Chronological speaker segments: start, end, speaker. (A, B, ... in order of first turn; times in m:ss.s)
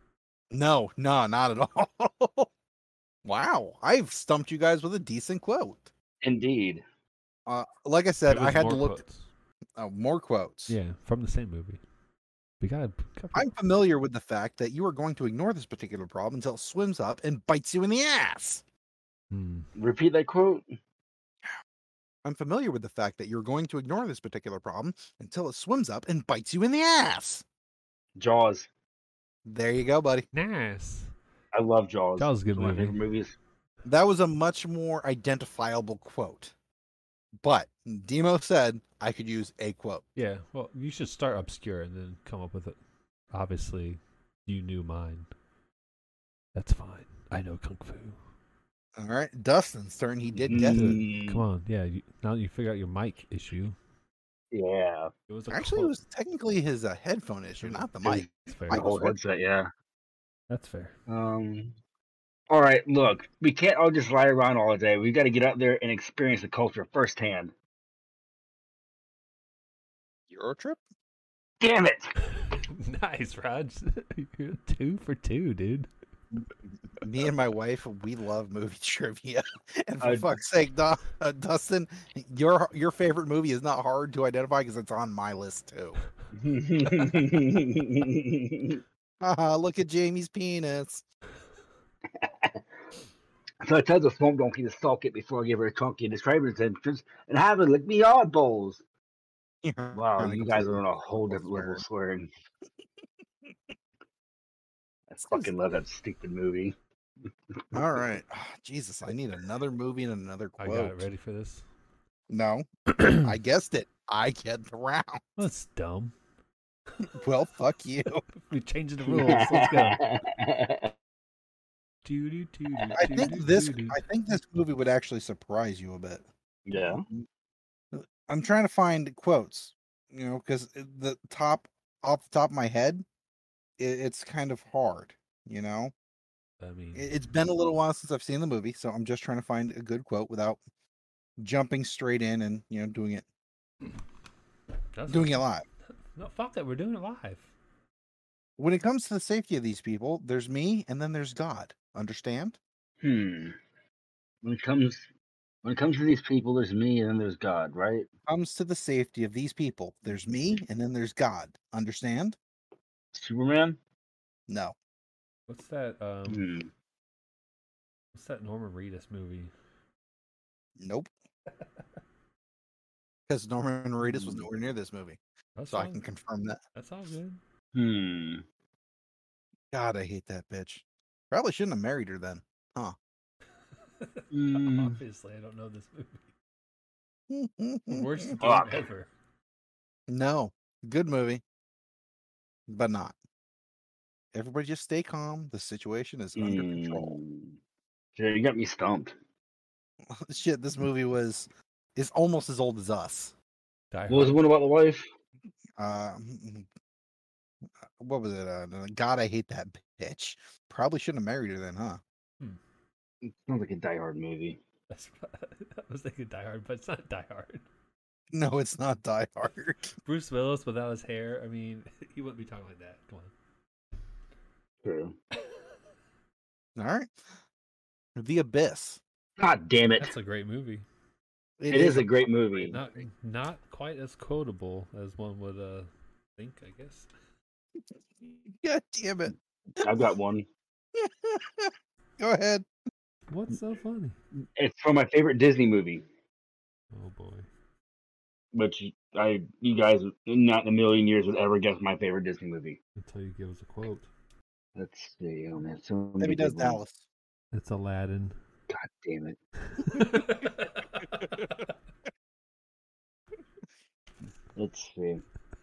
0:00.5-0:02.5 A
0:03.2-0:05.9 A
0:06.2-0:06.8 B
0:07.5-0:09.0 A
0:08.3-0:09.3 C
0:09.8-0:10.8 A
0:10.7-0:11.8 C
0:12.6-0:13.5 C
0:13.3-0:18.6 A
0:19.3-0:19.7 C
0:19.8-0:20.6 B
0:22.2-0:27.4 A
0:28.2-0:28.7 B
0:29.4-0:30.3 A
0:30.3-0:31.1 C
0:31.5-0:33.4 B
0:32.2-0:33.0 C
0:33.8-0:36.5 A
0:37.4-0:40.0 A
0:40.2-0:42.8 C
0:43.3-0:45.3 C
0:46.6-0:48.2 C
0:49.0-0:51.0 A
0:50.3-0:53.8 C
0:50.5-0:51.4 B
0:54.5-0:55.1 B
0:55.3-0:55.9 C
0:55.5-0:59.2 A
0:57.6-0:58.9 C
0:58.7-0:59.7 B
1:00.5-1:01.0 C
1:01.1-1:01.7 B
1:02.5-1:07.5 B
1:10.3-1:10.8 A
1:11.6-1:12.1 B
1:12.4-1:15.9 C
1:17.0-1:26.0 A
1:20.0-1:20.3 B
1:26.3-1:28.8 B
1:29.2-1:31.0 A
1:32.2-1:32.6 B
1:33.6-1:38.8 B
1:39.6-1:41.8 A
1:39.9-1:42.3 B
1:45.1-1:46.7 B
1:45.2-1:45.5 A
1:47.7-1:51.0 A
1:50.6-1:51.6 C
1:52.3-1:55.4 A
1:55.4-1:56.1 C
1:57.0-1:58.2 A
1:58.3-2:00.0 C
1:59.0-2:00.9 B
2:02.0-2:04.0 C
2:02.8-2:03.4 B
2:03.0-2:07.2 A
2:06.6-2:07.0 B
2:07.9-2:13.0 A
2:13.8-2:15.9 A
2:16.6-2:17.1 C
2:17.0-2:20.6 A
2:21.4-2:23.3 A
2:24.9-2:25.4 C
2:25.1-2:25.6 A
2:26.1-2:27.5 C
2:28.6-2:32.6 A
2:33.0-2:33.6 B
2:34.4-2:35.0 B
2:35.6-2:38.1 B
2:38.3-2:42.4 A
2:43.1-2:43.8 B
2:44.5-2:44.7 A
2:45.5-2:46.4 C
2:46.3-2:46.7 B
2:48.1-2:49.5 C
2:50.8-2:51.1 A
2:53.3-2:55.2 A
2:54.0-2:54.4 B
2:55.6-2:56.0 C
2:55.7-2:56.6 A
2:56.7-2:57.4 C
2:57.7-2:58.4 B
2:59.7-3:03.0 A
3:04.0-3:06.2 C
3:04.3-3:05.0 B
3:07.3-3:08.3 A
3:07.9-3:09.1 C
3:08.4-3:08.8 B
3:10.1-3:11.4 A
3:12.7-3:13.1 A
3:14.3-3:17.2 A
3:16.4-3:17.6 B
3:18.2-3:19.1 B
3:20.1-3:23.3 A
3:23.9-3:24.4 C
3:24.1-3:25.0 B
3:25.8-3:26.7 A
3:27.8-3:32.0 A
3:33.3-3:34.6 B
3:34.9-3:37.6 C
3:38.3-3:39.9 A
3:40.0-3:43.3 C
3:44.8-3:45.2 B
3:46.8-3:47.1 A
3:48.2-3:49.0 A
3:49.4-3:50.1 B
3:50.0-3:50.8 C
3:51.6-3:52.1 A
3:51.7-3:53.0 B
3:52.6-3:57.1 C
3:57.8-4:00.1 A
3:59.8-4:00.4 B
4:01.0-4:02.6 A
4:03.3-4:04.2 C
4:04.6-4:06.0 B
4:06.9-4:07.5 C
4:08.5-4:12.8 B
4:13.0-4:14.1 C
4:14.8-4:16.8 B
4:16.2-4:17.0 A
4:17.5-4:18.4 C
4:18.7-4:19.4 B
4:19.7-4:21.7 C
4:24.6-4:25.2 B